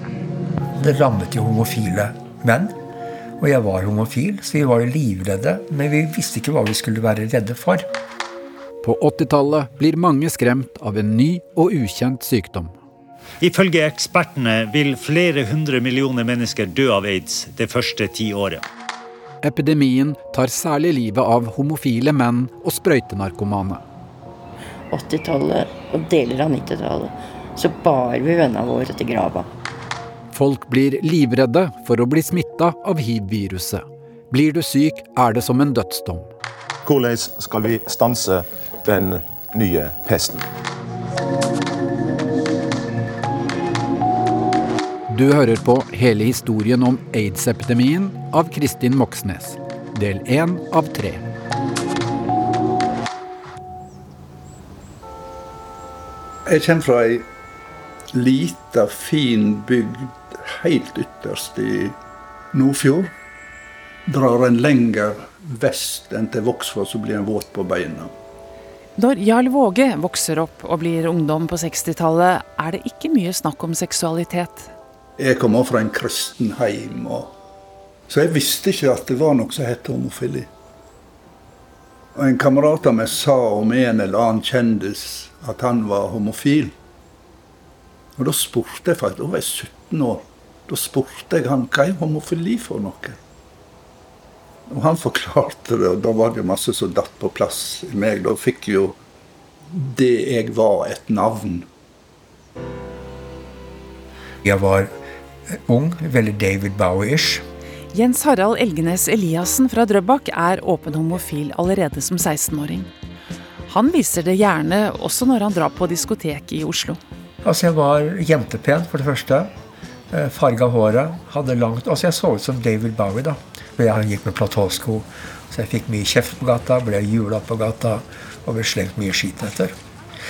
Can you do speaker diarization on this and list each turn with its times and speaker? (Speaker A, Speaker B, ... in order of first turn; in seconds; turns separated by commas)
Speaker A: 0.7-2.8, Speaker A: 3.4-7.9, Speaker B: 8.8-12.7, Speaker C: 13.4-18.6, Speaker B: 19.4-23.8, Speaker D: 24.9-29.5, Speaker B: 30.3-36.3, Speaker E: 37.2-38.2, Speaker E: 38.9-40.4, Speaker B: 45.1-51.2, Speaker F: 56.5-57.3, Speaker F: 58.1-62.0, Speaker F: 62.5-63.1, Speaker F: 64.1-68.1, Speaker G: 69.0-74.7, Speaker F: 75.2-77.3, Speaker F: 78.1-80.5, Speaker F: 82.2-86.7, Speaker F: 88.2-93.2, Speaker F: 94.7-99.0, Speaker F: 99.7-101.7, Speaker A: 104.4-104.9, Speaker A: 105.5-107.5, Speaker G: 107.9-112.9, Speaker G: 113.7-117.0, Speaker A: 117.4-119.5, Speaker A: 120.1-129.8